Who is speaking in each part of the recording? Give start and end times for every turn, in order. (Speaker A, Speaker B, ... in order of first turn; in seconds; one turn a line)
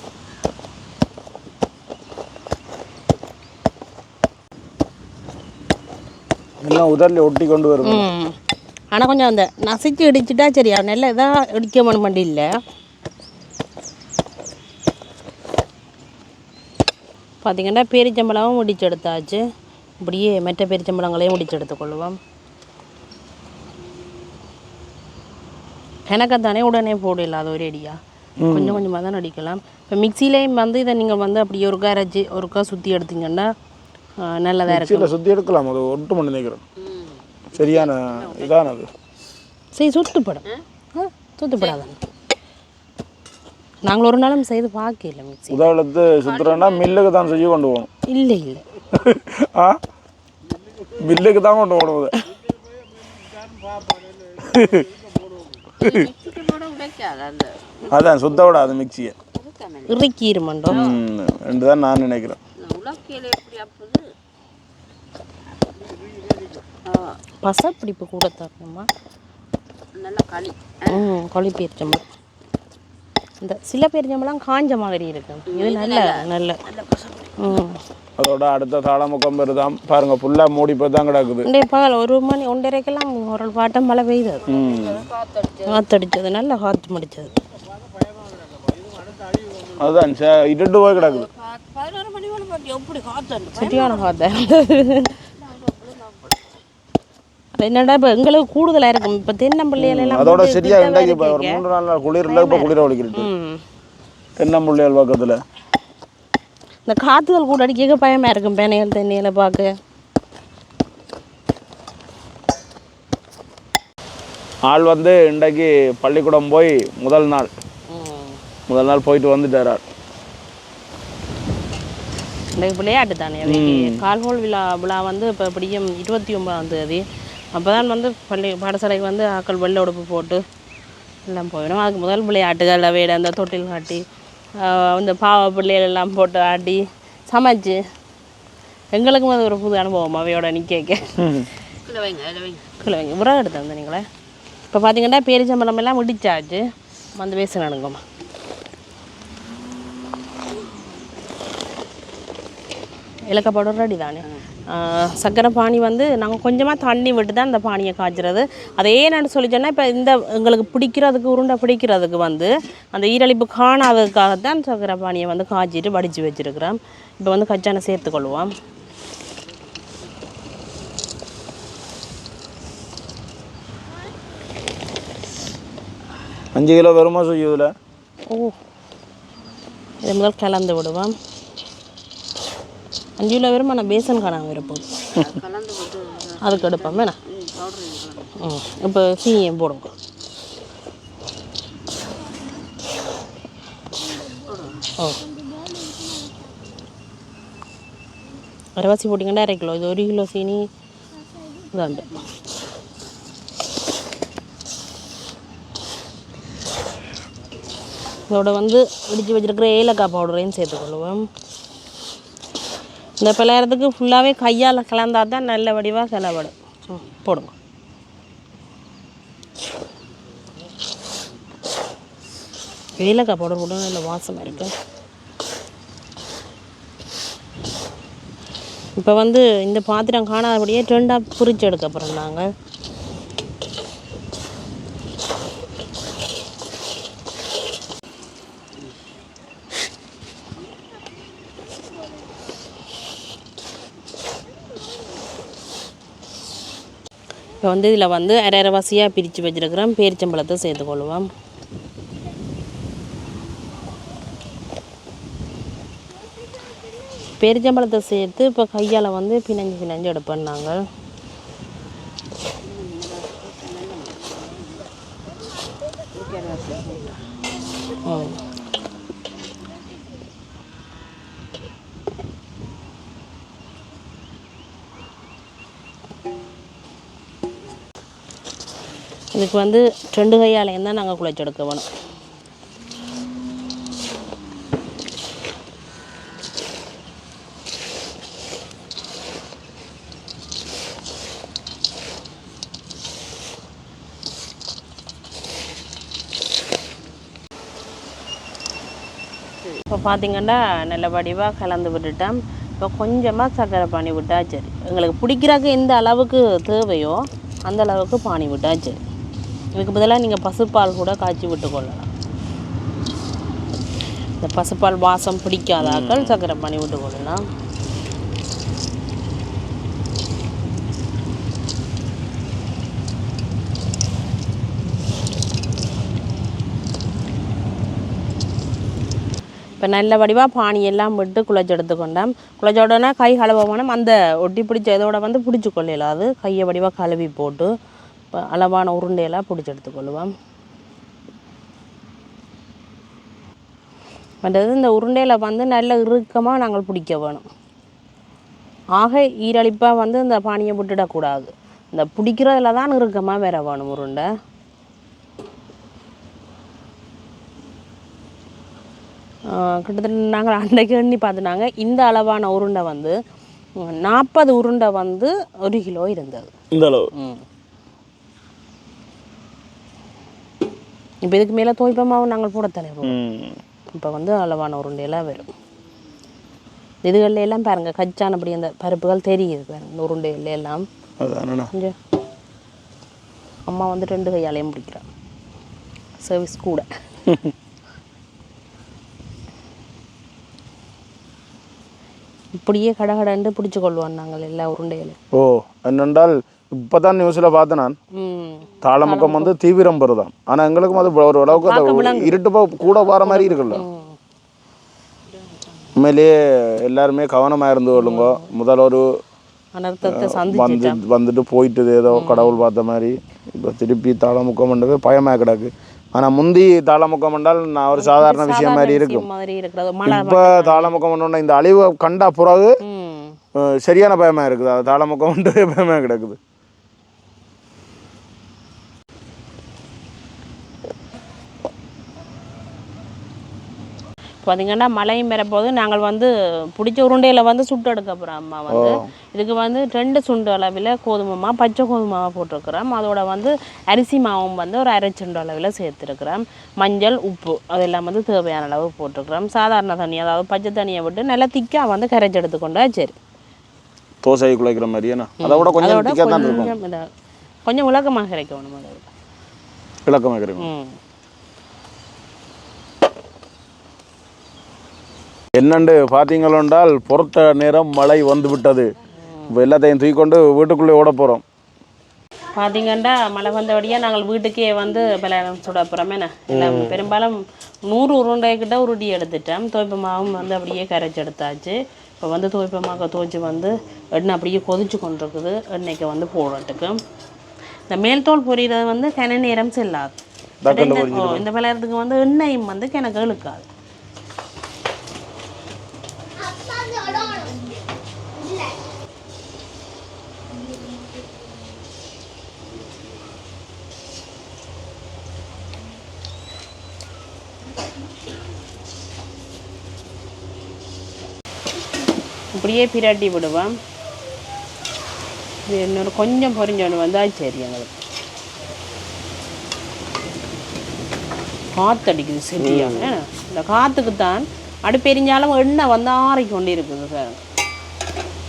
Speaker A: 6.6-8.1
Speaker B: 7.8-8.3
Speaker B: 8.9-12.5
Speaker B: 17.4-19.4
Speaker B: 20.0-22.2
Speaker B: 26.1-33.5
Speaker A: 28.4-28.8
Speaker B: 34.2-35.1
Speaker A: 34.7-36.6
Speaker C: 36.8-38.5
Speaker A: 37.5-38.9
Speaker B: 39.7-42.0
Speaker B: 43.8-45.7
Speaker A: 45.5-47.9
Speaker C: 46.3-47.0
Speaker B: 48.1-48.6
Speaker A: 48.9-49.8
Speaker A: 51.0-52.1
Speaker A: 54.2-55.1
Speaker A: 55.8-56.1
Speaker C: 55.8-58.6
Speaker A: 57.9-59.1
Speaker C: 59.3-60.0
Speaker B: 59.9-60.8
Speaker A: 60.7-62.4
Speaker C: 62.6-64.0
Speaker C: 66.8-67.2
Speaker B: 67.4-68.9
Speaker C: 70.0-71.0
Speaker B: 70.9-72.0
Speaker B: 73.4-76.7
Speaker C: 75.5-77.5
Speaker B: 77.4-77.8
Speaker A: 78.2-81.5
Speaker B: 81.5-84.5
Speaker A: 84.5-85.1
Speaker C: 84.7-85.8
Speaker B: 85.7-87.3
Speaker A: 89.7-91.3
Speaker C: 91.0-94.0
Speaker B: 93.5-95.2
Speaker C: 95.4-96.3
Speaker B: 97.5-101.6
Speaker A: 99.8-103.3
Speaker B: 102.3-103.6
Speaker A: 104.4-105.4
Speaker B: 106.9-109.8
Speaker A: 114.7-117.5
Speaker B: 117.9-118.4
Speaker A: 118.7-119.8
Speaker B: 122.5-130.4
Speaker A: 123.5-124.1
Speaker B: 131.3-134.1
Speaker B: 134.6-137.8
Speaker B: 138.9-141.2
Speaker A: 141.2-141.5
Speaker C: 141.9-142.6
Speaker B: 142.7-144.1
Speaker B: 144.7-148.0
Speaker B: 153.3-168.5
Speaker A: 176.6-177.7
Speaker B: 178.3-178.6
Speaker B: 180.0-181.2
Speaker B: 183.2-184.8
Speaker C: 185.2-188.3
Speaker B: 186.4-187.2
Speaker B: 188.4-189.9
Speaker C: 194.5-194.8
Speaker B: 195.0-195.2
Speaker B: 198.8-200.7
Speaker B: 201.6-202.2
Speaker B: 208.3-211.3
Speaker B: 213.2-217.5
Speaker B: 223.0-224.7
Speaker B: 229.0-232.5
Speaker B: 247.6-251.3
Speaker B: 257.4-260.8
Speaker C: 262.6-264.6
Speaker C: 266.1-267.2
Speaker B: 268.1-268.4
Speaker B: 279.3-281.9
Speaker B: 299.8-309.0
Speaker B: 309.7-312.1
Speaker B: 314.4-317.4
Speaker A: 315.8-316.4
Speaker B: 329.8-337.7
Speaker B: 338.3-340.3
Speaker B: 344.4-347.4
Speaker B: 349.0-354.3
Speaker B: 359.5-363.2
Speaker B: 363.8-366.5
Speaker A: 366.7-367.1
Speaker B: 367.1-367.4
Speaker B: 371.2-373.2
Speaker A: 373.0-373.6
Speaker B: 373.9-375.5
Speaker B: 377.0-380.9
Speaker A: 381.2-381.7
Speaker B: 383.7-385.1
Speaker B: 386.2-386.9
Speaker A: 387.3-387.5
Speaker B: 392.6-395.2
Speaker A: 395.3-398.0
Speaker B: 398.2-399.5
Speaker A: 398.8-403.8
Speaker B: 401.5-402.4
Speaker B: 403.0-404.2
Speaker A: 405.9-409.1
Speaker B: 407.9-408.5
Speaker B: 409.8-411.0
Speaker A: 410.1-419.3
Speaker B: 412.1-412.6
Speaker B: 418.0-420.9
Speaker A: 420.1-422.8
Speaker B: 422.8-423.4
Speaker A: 423.6-426.4
Speaker B: 434.4-453.1
Speaker A: 438.7-439.1
Speaker A: 454.2-456.8
Speaker B: 455.4-457.1
Speaker B: 457.6-459.1
Speaker A: 460.1-460.7
Speaker B: 460.6-461.0
Speaker A: 465.6-468.9
Speaker A: 469.5-471.4
Speaker B: 472.6-487.0
Speaker A: 476.5-477.1
Speaker B: 487.9-493.7
Speaker A: 490.6-491.5
Speaker B: 512.5-513.8
Speaker B: 515.7-517.9
Speaker B: 521.8-527.4
Speaker A: 522.6-523.1